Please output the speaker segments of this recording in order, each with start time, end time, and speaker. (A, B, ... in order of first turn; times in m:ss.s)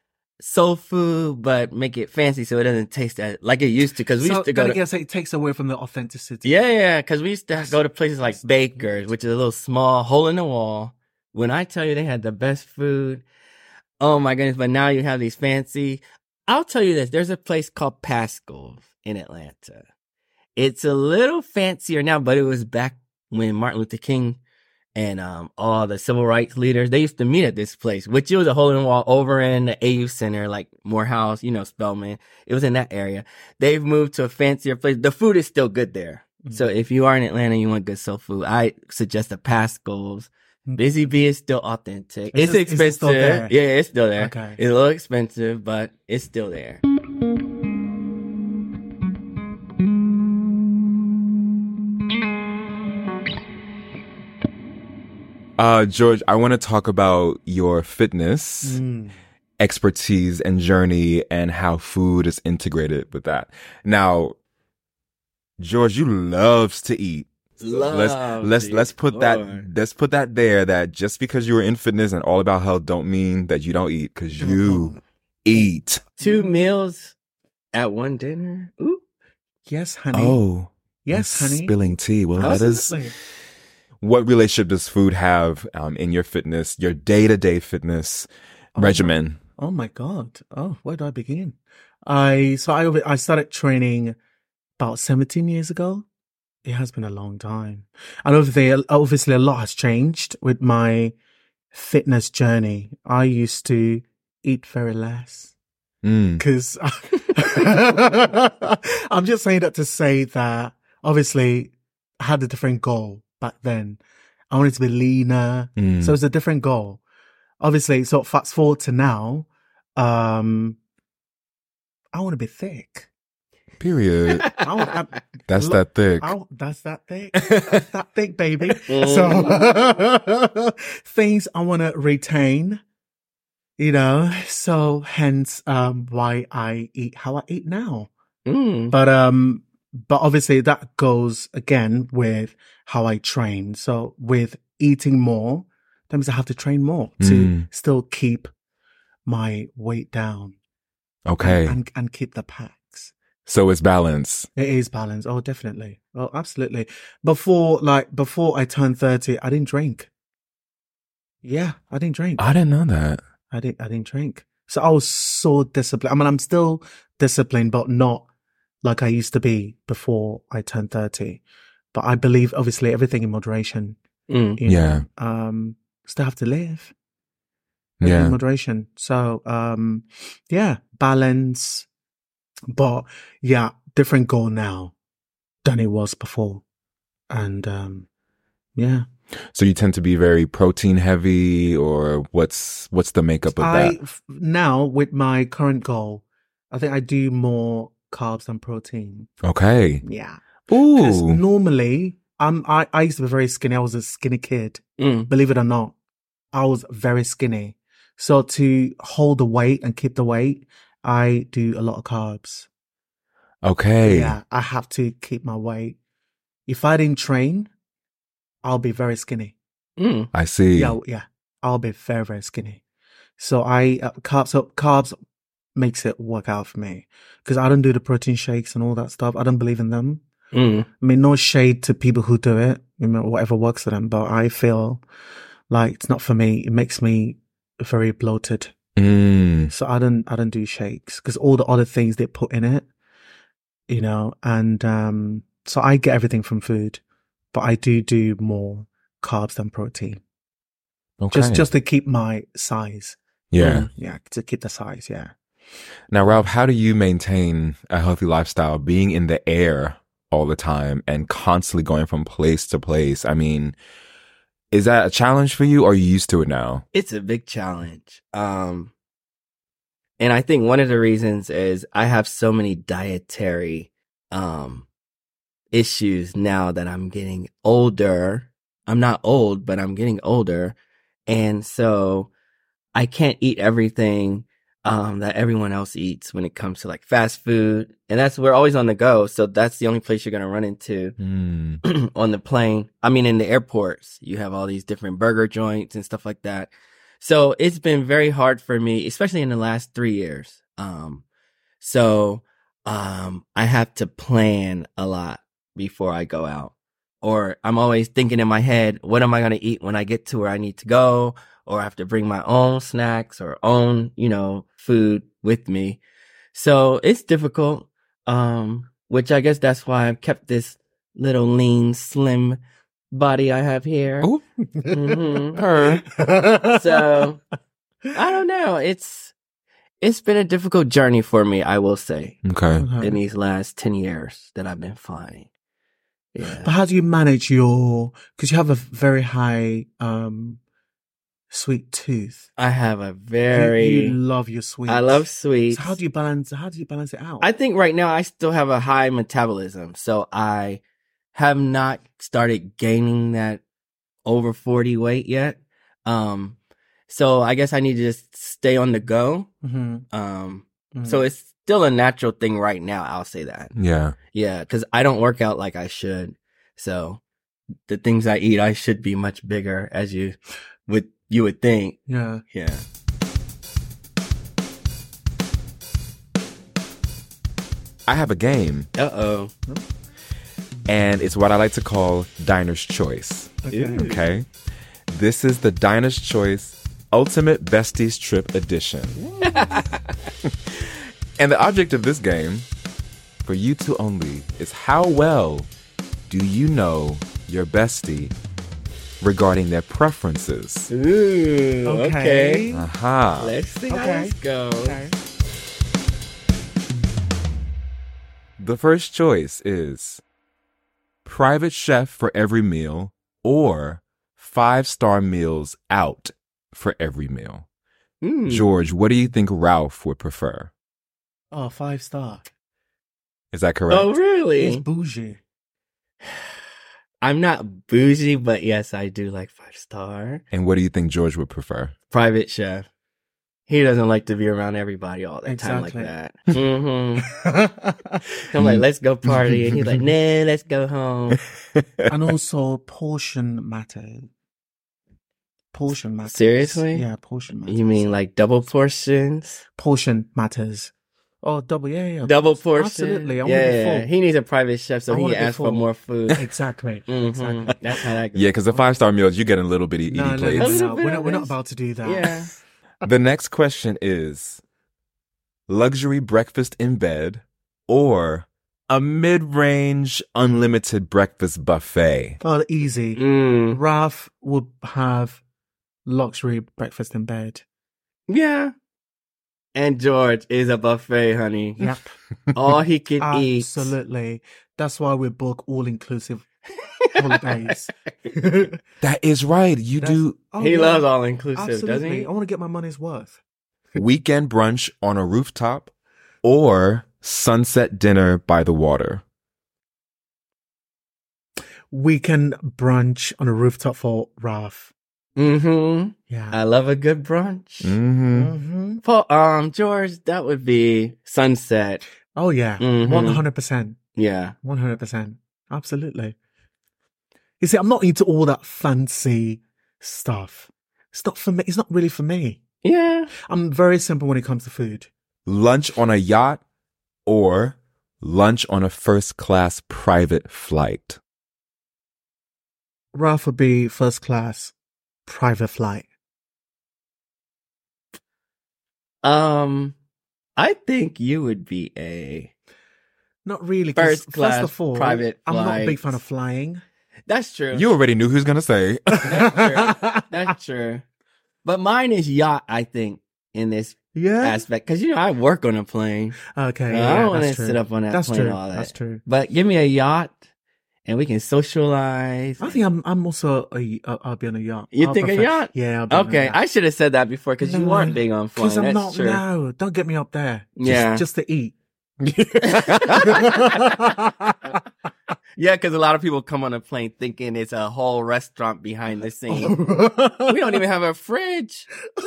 0:00.4-0:04.8 A
0:04.2-0:06.5 B
0:06.4-0:13.2 A
0:07.5-0:09.1 B
0:14.0-0:19.8 A
0:20.6-0:24.4 A
0:25.0-0:46.8 A
0:40.7-0:41.1 B
0:42.3-0:43.5 B
0:44.2-0:44.6 B
0:55.6-0:58.8 C
0:58.6-0:59.2 B
0:59.6-1:04.3 C
1:05.6-1:16.0 C
1:07.6-1:09.7 A
1:14.4-1:15.0 B
1:16.2-1:17.1 A
1:16.2-1:16.6 B
1:17.7-1:19.0 A
1:19.7-1:20.4 B
1:20.1-1:22.9 C
1:21.0-1:21.8 B
1:22.3-1:23.1 B
1:22.4-1:22.8 A
1:24.0-1:29.4 C
1:28.8-1:34.2 B
1:34.8-1:36.0 B
1:36.6-1:41.1 B
1:41.7-1:45.5 B
1:46.0-1:46.4 C
1:46.4-1:57.0 B
1:55.8-1:56.2 C
1:57.6-2:00.8 B
2:02.1-2:03.1 B
2:03.8-2:04.5 C
2:04.3-2:04.8 A
2:04.6-2:12.8 B
2:05.5-2:06.3 C
2:07.5-2:07.8 C
2:08.9-2:09.6 A
2:13.8-2:18.1 B
2:18.4-2:18.9 A
2:18.9-2:28.5 B
2:27.2-2:27.6 C
2:29.2-2:30.5 B
2:31.2-2:31.8 C
2:31.4-2:33.1 B
2:33.4-2:34.5 C
2:34.6-2:40.1 B
2:41.4-2:42.4 B
2:42.4-2:43.2 C
2:43.5-2:48.2 B
2:48.8-2:51.4 B
2:51.9-2:54.0 B
2:54.3-2:54.6 A
2:54.6-2:56.9 B
2:54.6-2:55.0 C
2:58.0-2:58.4 C
2:58.0-3:01.9 B
3:02.7-3:04.9 B
3:05.6-3:06.6 B
3:07.3-3:08.0 B
3:08.8-3:09.0 B
3:09.5-3:14.0 C
3:13.5-3:19.3 B
3:19.4-3:20.0 C
3:20.0-3:20.4 B
3:20.7-3:21.4 C
3:20.9-3:25.9 B
3:25.0-3:25.3 A
3:26.5-3:32.7 B
3:33.6-3:34.4 C
3:34.0-3:36.0 B
3:36.7-3:37.7 B
3:38.6-3:39.6 B
3:40.0-3:40.3 A
3:40.3-3:41.0 C
3:40.7-3:42.8 B
3:43.4-3:45.2 B
3:45.8-3:50.2 B
3:50.5-3:50.9 A
3:51.0-3:55.0 B
3:55.7-3:58.7 B
3:59.0-3:59.7 C
3:59.7-4:02.9 B
4:03.9-4:07.0 B
4:07.5-4:10.2 B
4:11.2-4:11.7 C
4:11.3-4:13.2 B
4:13.5-4:13.9 C
4:13.6-4:13.9 A
4:13.8-4:15.3 B
4:16.1-4:23.8 C
4:24.7-4:26.8 C
4:26.9-4:28.9 A
4:30.2-4:34.8 A
4:35.7-4:40.7 A
4:41.3-4:42.3 A
4:42.9-4:51.2 A
4:51.2-4:51.8 C
4:51.8-5:01.2 A
5:01.8-5:16.0 A
5:16.5-5:22.6 A
5:23.1-5:24.3 A
5:24.8-5:25.2 B
5:24.9-5:25.6 A
5:25.5-5:26.0 C
5:25.8-5:27.0 B
5:26.7-5:27.4 A
5:28.1-5:29.3 A
5:30.0-5:32.4 A
5:32.4-5:32.9 C
5:32.8-5:33.2 B
5:33.0-5:35.5 A
5:36.3-5:36.7 A
5:36.6-5:40.6 B
5:41.5-5:42.5 B
5:42.6-5:44.2 A
5:43.5-5:47.4 B
5:44.9-5:46.0 A
5:47.4-5:50.8 A
5:51.3-5:53.6 A
5:54.2-5:56.6 A
5:57.1-5:59.5 A
5:59.6-6:00.0 B
6:00.1-6:03.7 A
6:00.9-6:01.2 B
6:03.8-6:04.2 C
6:04.3-6:07.2 A
6:07.9-6:12.8 A
6:12.1-6:12.4 B
6:18.1-6:18.9 C
6:18.9-6:19.5 A
6:20.9-6:24.5 C
6:23.7-6:24.1 B
6:23.7-6:24.2 A
6:25.1-6:29.2 C
6:29.2-6:29.8 B
6:29.4-6:30.1 A
6:31.4-6:32.7 C
6:33.4-6:35.7 C
6:36.3-6:38.3 C
6:39.2-6:40.9 C
6:40.9-6:42.6 A
6:41.8-6:42.9 B
6:42.7-6:43.5 C
6:43.4-6:45.0 A
6:43.9-6:45.2 B
6:48.6-6:50.2 C
6:51.2-6:57.6 C
6:58.2-6:58.7 A
6:58.5-7:00.7 C
7:01.5-7:02.5 B
7:03.5-7:04.1 C
7:03.9-7:04.8 A
7:04.6-7:05.4 B
7:07.2-7:10.4 A
7:10.5-7:11.9 C
7:12.1-7:12.8 A
7:13.7-7:17.3 A
7:15.4-7:16.1 B
7:17.3-7:18.2 B
7:18.5-7:21.4 A
7:18.6-7:19.8 C
7:21.7-7:22.1 C
7:22.1-7:24.3 B
7:25.7-7:28.1 B
7:26.2-7:27.0 A
7:27.6-7:29.6 A
7:29.8-7:34.1 B
7:32.2-7:36.4 A
7:35.1-7:37.8 B
7:37.1-7:38.5 A
7:38.3-7:40.8 C
7:40.1-7:42.6 B
7:40.5-7:42.5 A
7:43.0-7:44.6 C
7:45.7-7:52.4 C
7:52.4-7:55.4 B
7:53.1-7:53.8 A
7:56.0-7:57.6 B
7:58.3-7:58.7 A
7:59.7-8:01.8 A
8:01.8-8:02.1 B
8:02.5-8:03.9 A
8:03.2-8:06.5 B
8:07.0-8:07.4 A
8:07.1-8:08.8 B
8:09.0-8:10.4 C
8:10.0-8:13.4 B
8:10.6-8:12.3 A
8:14.0-8:15.9 C
8:16.4-8:19.2 C
8:21.9-8:24.9 B
8:25.4-8:28.0 A
8:26.3-8:26.6 B
8:27.8-8:28.5 C
8:28.3-8:29.0 B
8:29.0-8:32.0 A
8:32.3-8:34.0 B
8:32.8-8:33.4 A
8:34.1-8:34.5 A
8:34.6-8:36.3 B
8:37.6-8:42.6 B
8:42.8-8:43.3 A
8:43.5-8:45.1 B
8:45.4-8:46.6 C
8:47.2-8:51.2 C
8:53.1-8:54.7 B
8:55.2-8:56.1 B
8:59.2-8:59.9 A
9:00.6-9:02.5 A
9:03.4-9:06.8 B
9:04.0-9:06.2 A
9:07.3-9:07.9 A
9:07.7-9:09.5 C
9:09.2-9:11.0 A
9:09.2-9:10.2 B
9:11.6-9:16.4 A
9:14.1-9:14.6 B
9:16.5-9:19.2 B
9:16.9-9:20.4 A
9:21.0-9:22.8 A
9:22.6-9:26.6 B
9:24.9-9:29.4 A
9:27.6-9:31.8 B
9:30.8-9:31.2 A
9:32.2-9:33.4 C
9:32.6-9:34.5 B
9:32.6-9:33.9 A
9:35.6-9:39.8 A
9:39.5-9:40.8 B
9:40.5-9:41.9 A